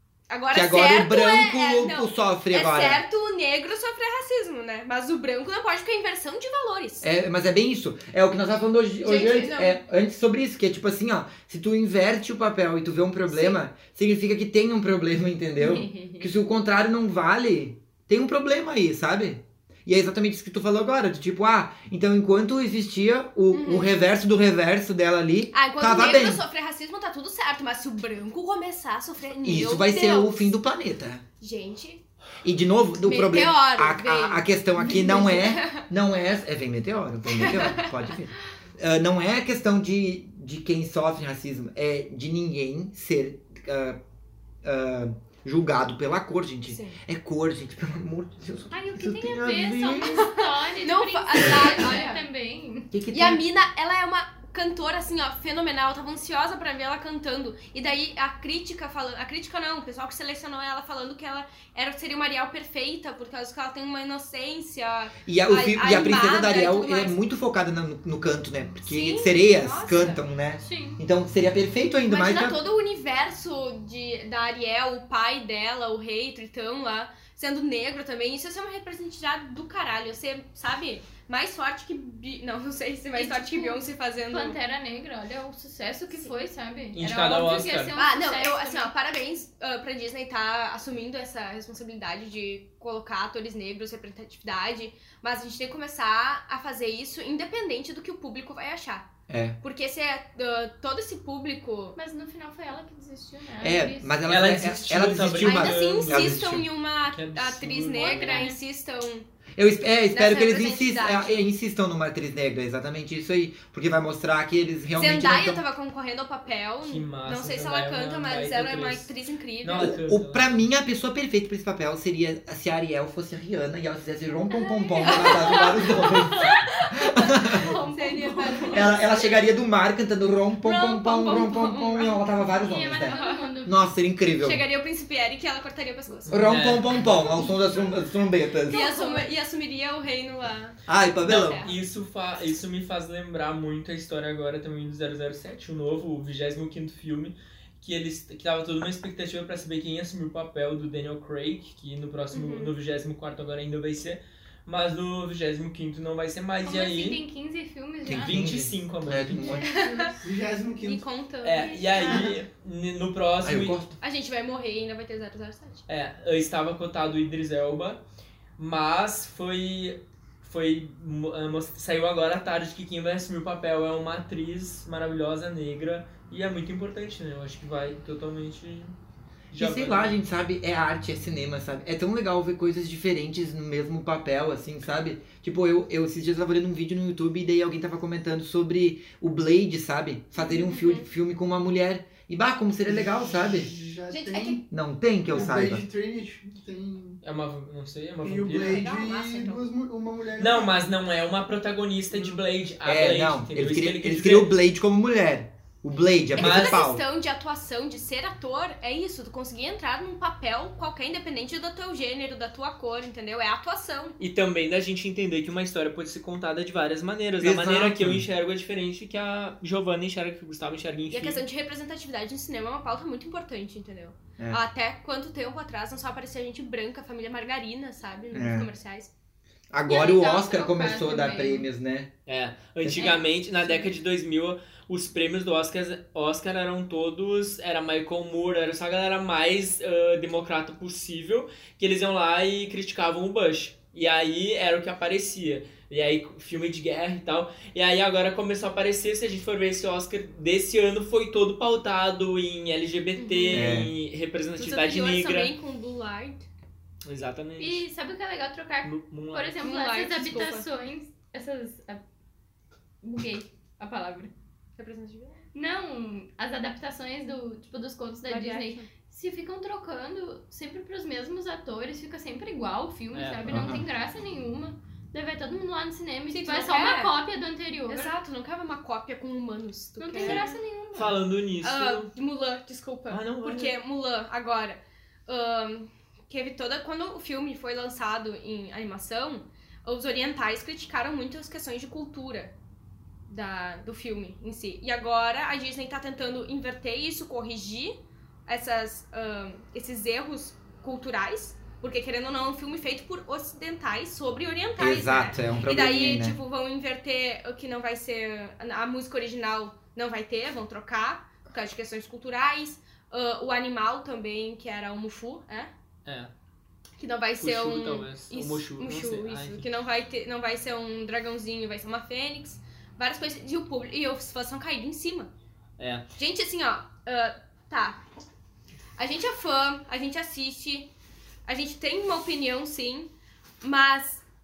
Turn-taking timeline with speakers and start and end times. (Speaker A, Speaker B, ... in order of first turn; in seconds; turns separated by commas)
Speaker A: 0.3-7.1, Speaker B: 0.5-3.0, Speaker B: 7.0-26.4, Speaker A: 9.0-9.8, Speaker A: 13.3-13.6, Speaker C: 15.6-16.2, Speaker A: 23.5-23.9, Speaker A: 25.5-30.5, Speaker B: 29.4-31.2, Speaker A: 31.4-32.0, Speaker B: 32.4-44.0, Speaker A: 33.0-35.8, Speaker A: 37.3-38.1, Speaker B: 44.6-50.2, Speaker A: 46.7-47.0, Speaker C: 48.7-52.9, Speaker A: 50.1-52.2, Speaker B: 52.9-53.4, Speaker A: 53.1-67.2, Speaker B: 65.2-72.6, Speaker A: 68.8-70.2, Speaker C: 70.6-71.0, Speaker A: 72.1-84.6, Speaker C: 83.1-88.9, Speaker D: 86.9-88.0, Speaker A: 87.9-99.1, Speaker B: 99.3-99.6, Speaker A: 99.6-102.0, Speaker C: 102.0-104.2, Speaker B: 103.6-106.7, Speaker D: 104.3-106.5, Speaker A: 105.4-109.2, Speaker D: 107.1-108.5, Speaker C: 107.9-108.6, Speaker B: 109.6-115.6, Speaker A: 110.1-111.4, Speaker A: 115.0-119.9, Speaker D: 116.8-119.1, Speaker D: 119.6-120.6, Speaker B: 119.8-127.7, Speaker C: 124.5-129.0, Speaker A: 125.0-126.7, Speaker A: 127.8-129.3, Speaker B: 128.7-134.6, Speaker A: 130.6-132.0, Speaker C: 130.7-133.8, Speaker A: 133.0-133.5, Speaker A: 134.4-136.5, Speaker D: 136.3-137.5, Speaker B: 136.3-138.8, Speaker C: 138.7-139.3, Speaker A: 138.7-141.7, Speaker B: 140.9-141.7, Speaker D: 141.2-157.2, Speaker A: 152.3-152.7, Speaker C: 156.6-158.5, Speaker B: 158.0-159.6, Speaker D: 158.1-159.6, Speaker C: 159.4-160.1, Speaker A: 159.6-160.2, Speaker E: 160.2-161.1, Speaker A: 160.8-162.3, Speaker D: 161.4-163.8, Speaker C: 161.6-162.3, Speaker B: 163.4-163.9, Speaker A: 164.0-165.8, Speaker D: 165.9-168.0, Speaker D: 168.6-178.9, Speaker D: 179.5-180.2, Speaker B: 179.5-193.7, Speaker A: 190.4-191.0, Speaker E: 192.8-194.6, Speaker A: 194.1-194.6, Speaker B: 194.7-195.8, Speaker E: 195.3-197.2, Speaker D: 197.2-198.8, Speaker E: 198.2-200.9, Speaker A: 198.6-199.6, Speaker D: 200.4-204.6, Speaker B: 202.8-207.0, Speaker A: 206.3-214.2, Speaker D: 206.4-206.8, Speaker D: 214.2-221.4, Speaker B: 217.4-218.2, Speaker A: 221.1-229.1, Speaker B: 228.3-228.7, Speaker B: 229.7-232.1, Speaker C: 229.9-231.7, Speaker D: 232.3-255.5, Speaker B: 232.8-233.1, Speaker C: 233.0-233.8, Speaker A: 253.2-253.7, Speaker B: 253.5-253.9, Speaker A: 254.6-256.4, Speaker D: 257.0-257.9, Speaker C: 257.6-262.0, Speaker D: 258.8-259.6, Speaker A: 259.6-260.7, Speaker C: 263.0-264.3, Speaker A: 264.8-265.4, Speaker C: 265.5-278.1, Speaker A: 268.3-268.9, Speaker D: 273.1-273.7, Speaker B: 273.5-273.8, Speaker A: 276.3-277.1, Speaker A: 277.9-280.6, Speaker C: 280.0-281.2, Speaker D: 280.2-282.1, Speaker A: 281.6-292.5, Speaker D: 283.1-283.7, Speaker A: 293.3-297.9, Speaker A: 298.5-315.7, Speaker B: 304.8-306.4, Speaker D: 316.1-316.3, Speaker A: 317.0-325.3, Speaker D: 317.4-319.7, Speaker D: 325.8-326.1, Speaker A: 326.2-328.0, Speaker A: 329.0-330.9, Speaker A: 331.4-334.2